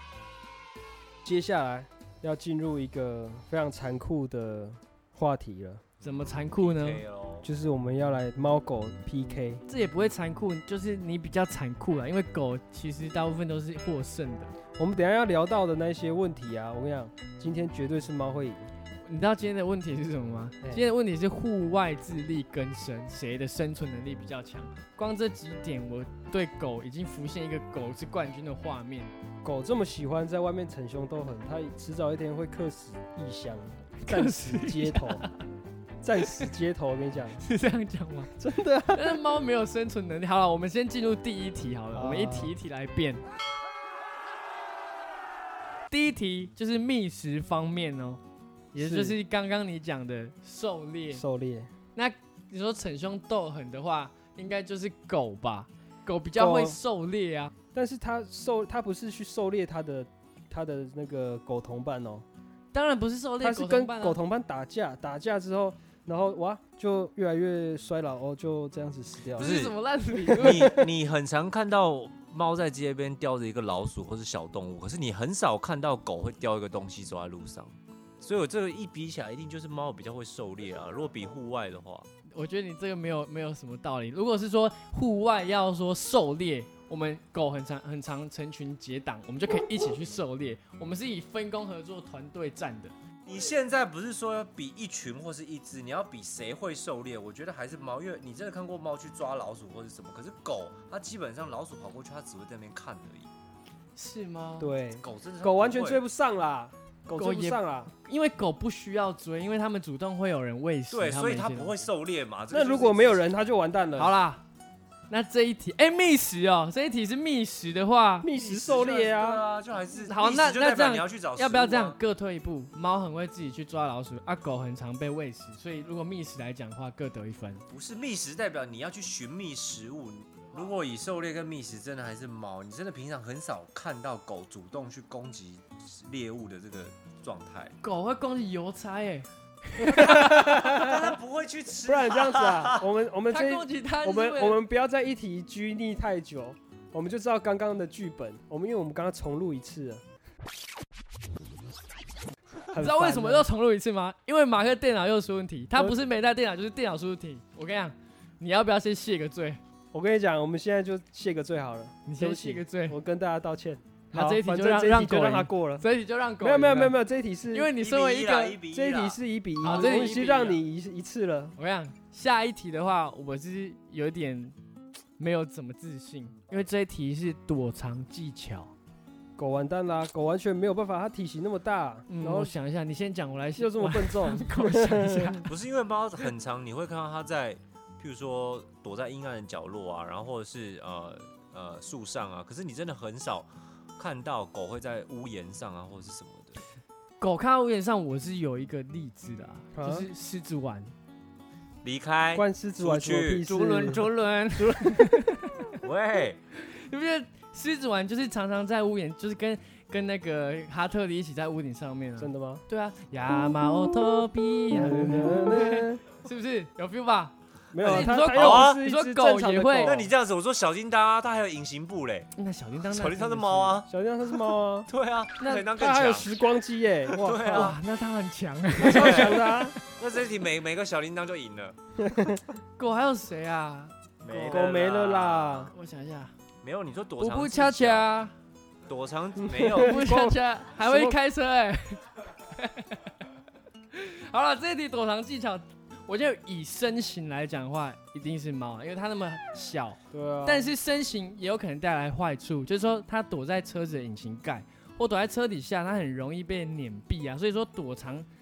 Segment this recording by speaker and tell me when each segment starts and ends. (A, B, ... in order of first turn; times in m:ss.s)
0:01.2-0:05.8 A
0:06.0-0:07.5 B
0:06.0-0:07.0 C
0:07.4-0:09.6 A
0:09.7-0:14.5 C
0:14.8-0:18.7 A
0:19.1-0:29.1 C
0:29.4-0:35.2 A
0:34.0-0:35.4 C
0:36.0-0:37.4 A
0:36.2-0:36.5 C
0:37.4-0:38.4 C
0:38.4-0:39.2 A
0:38.9-0:43.2 C
0:41.9-0:42.5 A
0:45.9-0:48.2 C
0:48.7-0:51.2 C
0:48.8-0:49.2 A
0:51.1-0:51.7 A
0:52.0-0:57.5 C
0:56.4-0:56.8 A
0:57.7-1:02.2 A
1:02.7-1:04.2 C
1:03.4-1:09.5 A
1:09.4-1:10.8 C
1:09.4-1:09.8 B
1:10.3-1:10.7 A
1:10.4-1:22.1 B
1:22.3-1:32.9 C
1:33.3-1:43.3 B
1:44.0-1:44.7 C
1:44.6-1:47.9 A
1:45.0-1:46.0 B
1:47.1-1:51.8 C
1:50.9-1:53.3 B
1:52.5-1:54.1 A
1:54.0-1:54.4 C
1:55.1-1:58.3 C
1:58.2-1:59.4 A
1:58.3-2:02.0 B
1:59.9-2:07.6 C
2:07.7-2:17.8 B
2:17.8-2:20.5 C
2:19.8-2:21.1 A
2:20.0-2:22.8 B
2:21.8-2:30.0 A
2:23.3-2:24.6 C
2:32.7-2:33.5 A
2:32.7-2:39.6 C
2:39.9-2:45.8 A
2:42.1-2:43.0 C
2:44.1-2:47.0 C
2:46.4-2:47.7 A
2:47.5-2:48.6 C
2:47.8-2:50.1 B
2:48.7-2:51.6 A
2:49.6-2:50.6 C
2:51.6-2:54.6 C
2:55.2-2:58.7 C
2:59.4-3:02.5 A
3:02.1-3:05.5 C
3:03.6-3:05.5 A
3:05.5-3:16.6 B
3:17.2-3:20.9 C
3:19.8-3:20.1 A
3:21.8-3:23.5 B
3:22.3-3:25.2 A
3:23.5-3:25.8 C
3:25.8-3:26.4 B
3:26.6-3:40.0 C
3:32.2-3:32.6 A
3:34.7-3:36.0 A
3:37.7-3:40.1 A
3:37.8-3:38.8 B
3:39.8-3:42.3 B
3:42.4-3:43.8 C
3:42.9-3:46.3 B
3:43.9-3:44.9 A
3:45.4-3:45.7 C
3:45.7-3:47.7 A
3:47.1-3:47.8 B
3:47.5-3:49.7 C
3:48.8-3:49.8 A
3:48.8-3:51.8 B
3:52.0-3:52.4 A
3:52.8-3:54.7 C
3:54.2-3:55.7 B
3:54.5-3:55.7 A
3:55.7-3:56.3 C
3:56.6-3:58.1 B
3:57.2-3:58.3 C
3:58.9-4:00.0 B
3:59.4-4:01.2 A
3:59.6-4:03.2 C
4:03.9-4:18.3 C
4:10.1-4:10.7 A